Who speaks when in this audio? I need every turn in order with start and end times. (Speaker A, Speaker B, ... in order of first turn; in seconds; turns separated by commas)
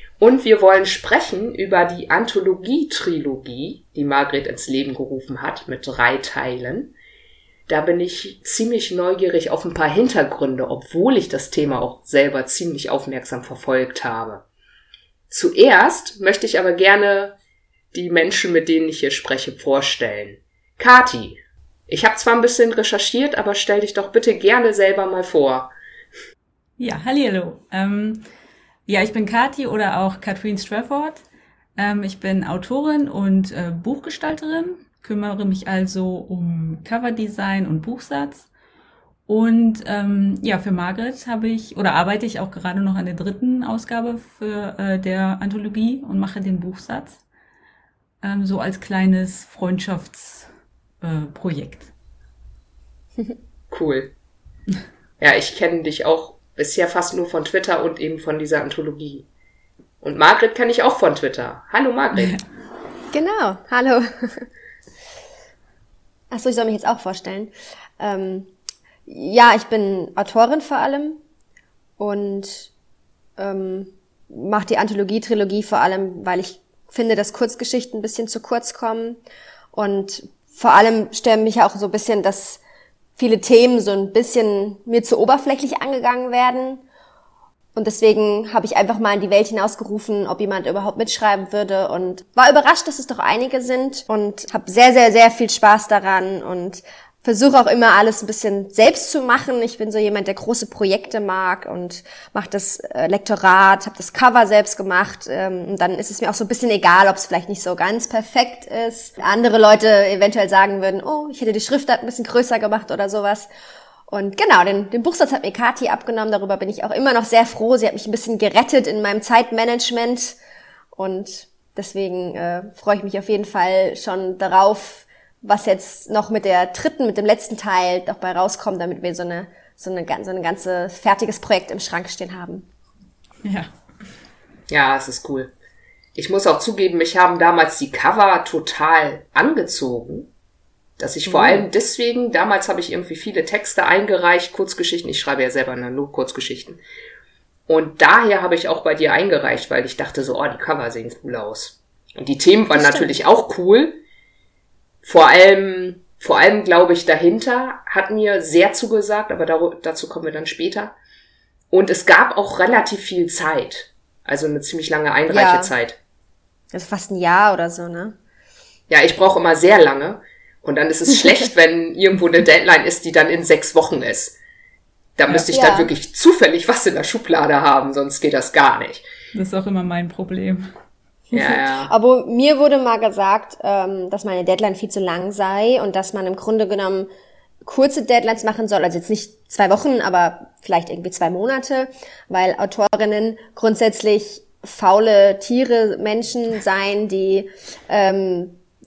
Speaker A: 0.2-6.9, Speaker A: 7.7-14.4, Speaker A: 15.3-17.3, Speaker A: 17.9-25.7, Speaker B: 26.8-28.3, Speaker B: 28.9-31.2, Speaker B: 31.8-38.5, Speaker B: 39.3-47.2, Speaker B: 48.2-50.5, Speaker B: 51.0-51.9, Speaker A: 53.7-54.1, Speaker A: 55.2-59.3, Speaker A: 60.0-62.4, Speaker B: 62.2-62.4, Speaker C: 63.1-64.5, Speaker C: 66.3-68.5, Speaker C: 69.1-71.2, Speaker C: 72.0-72.7, Speaker C: 73.4-79.2, Speaker C: 79.7-82.6, Speaker C: 83.2-86.8, Speaker C: 87.8-113.5, Speaker C: 114.1-120.4, Speaker C: 121.0-132.7, Speaker B: 133.4-133.7, Speaker A: 134.7-135.5, Speaker A: 136.2-140.3, Speaker A: 141.0-146.8, Speaker C: 141.3-141.7, Speaker A: 147.7-154.0, Speaker C: 152.8-153.1, Speaker A: 155.0-160.9, Speaker A: 161.7-166.0, Speaker C: 165.3-165.7, Speaker C: 166.7-168.2, Speaker A: 168.9-174.4, Speaker A: 175.2-179.1, Speaker C: 175.5-175.9, Speaker B: 179.3-180.7, Speaker C: 181.3-187.1, Speaker A: 181.3-181.9, Speaker C: 187.6-198.6